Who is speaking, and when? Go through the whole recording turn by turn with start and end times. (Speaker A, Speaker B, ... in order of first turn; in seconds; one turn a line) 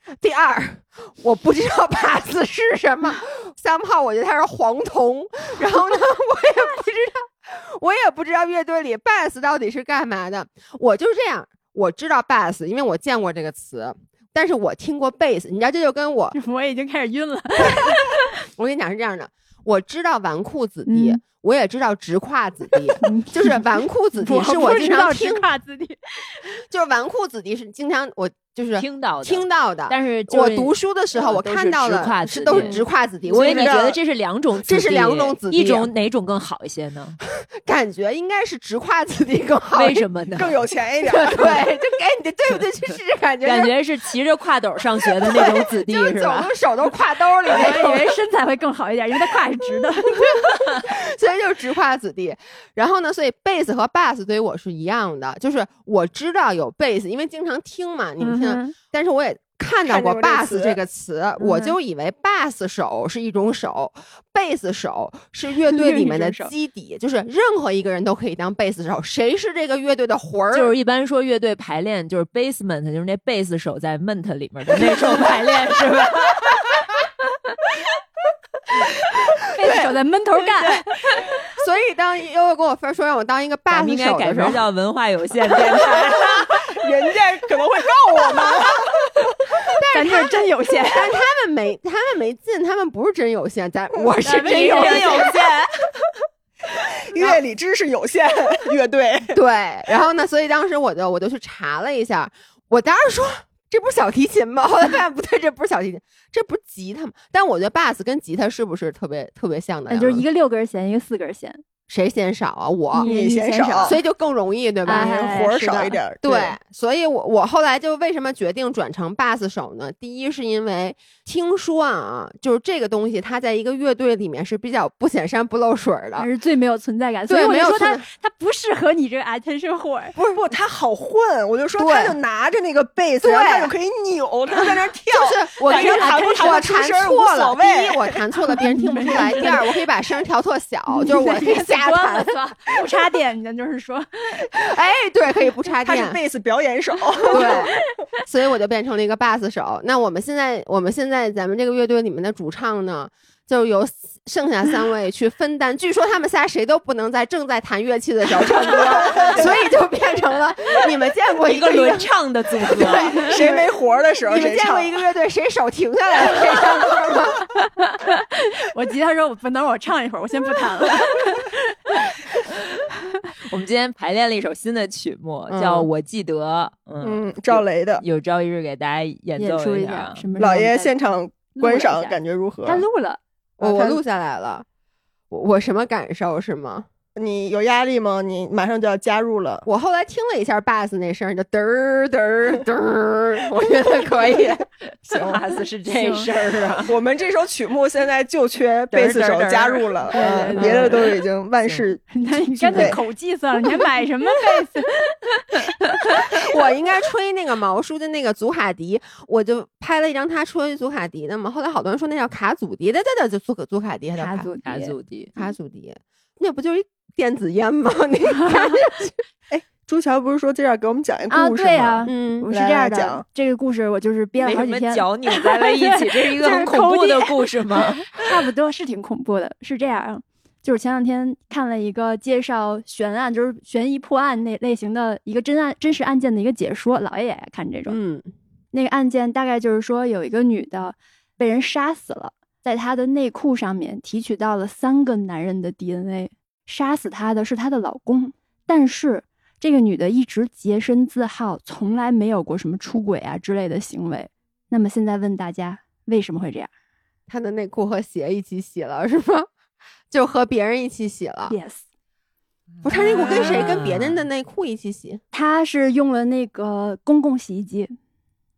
Speaker A: 0.2-16.4
Speaker B: 16.3-18.3
Speaker A: 18.6-25.5
Speaker B: 20.9-21.2
Speaker B: 23.0-23.6
Speaker B: 24.2-26.4
Speaker A: 26.7-33.8
Speaker C: 28.8-37.2
Speaker D: 32.5-34.0
Speaker A: 34.6-35.9
Speaker A: 37.6-40.0
Speaker C: 39.7-40.6
Speaker D: 40.4-41.7
Speaker A: 41.0-43.7
Speaker C: 43.4-46.5
Speaker A: 45.2-48.1
Speaker B: 47.5-50.6
Speaker A: 50.2-70.7
Speaker B: 58.2-58.8
Speaker D: 59.8-60.8
Speaker B: 61.4-61.8
Speaker B: 65.7-66.5
Speaker C: 70.5-76.7
Speaker B: 79.4-81.3
Speaker D: 79.6-79.9
Speaker A: 81.5-84.6
Speaker C: 83.7-86.7
Speaker D: 86.4-89.3
Speaker A: 89.7-95.3
Speaker B: 89.9-91.2
Speaker B: 94.2-95.3
Speaker C: 94.2-95.7
Speaker D: 97.1-99.4
Speaker A: 99.3-110.2
Speaker B: 109.9-111.6
Speaker A: 111.9-113.1
Speaker B: 112.9-114.0
Speaker D: 113.0-114.0
Speaker A: 113.8-115.5
Speaker B: 114.8-116.0
Speaker D: 114.9-116.6
Speaker A: 116.2-126.3
Speaker B: 126.2-130.1
Speaker A: 127.3-128.0
Speaker D: 130.2-138.2
Speaker A: 131.8-132.2
Speaker A: 133.2-133.7
Speaker A: 135.1-142.4
Speaker B: 135.7-136.7
Speaker B: 138.6-139.7
Speaker B: 140.9-144.6
Speaker A: 144.5-146.2
Speaker D: 145.8-147.7
Speaker B: 147.2-147.7
Speaker A: 147.3-147.7
Speaker A: 148.2-163.7
Speaker D: 159.0-159.5
Speaker C: 161.5-163.2
Speaker D: 163.2-165.0
Speaker A: 164.2-167.5
Speaker B: 167.6-172.1
Speaker C: 173.5-180.3
Speaker D: 175.5-175.9
Speaker D: 177.0-178.0
Speaker B: 179.4-180.9
Speaker D: 180.3-182.8
Speaker B: 181.5-183.2
Speaker D: 183.6-184.0
Speaker A: 183.6-184.7
Speaker A: 185.3-186.9
Speaker D: 187.2-189.6
Speaker A: 189.6-194.6
Speaker C: 195.0-196.9
Speaker B: 195.9-196.3
Speaker D: 196.8-202.0
Speaker C: 198.9-199.8
Speaker B: 200.1-201.0
Speaker C: 200.5-201.1
Speaker B: 202.1-206.4
Speaker D: 202.6-203.0
Speaker A: 206.4-214.5
Speaker B: 214.2-214.9
Speaker C: 214.6-215.3
Speaker A: 215.3-219.2
Speaker D: 219.5-223.2
Speaker B: 221.3-238.0
Speaker A: 222.1-222.5
Speaker C: 224.4-228.4
Speaker A: 237.9-238.3
Speaker B: 238.7-256.7
Speaker A: 257.3-259.5
Speaker A: 260.1-261.6
Speaker B: 261.5-261.8
Speaker C: 262.8-264.3
Speaker A: 262.8-265.2
Speaker D: 263.0-263.6
Speaker B: 265.3-267.9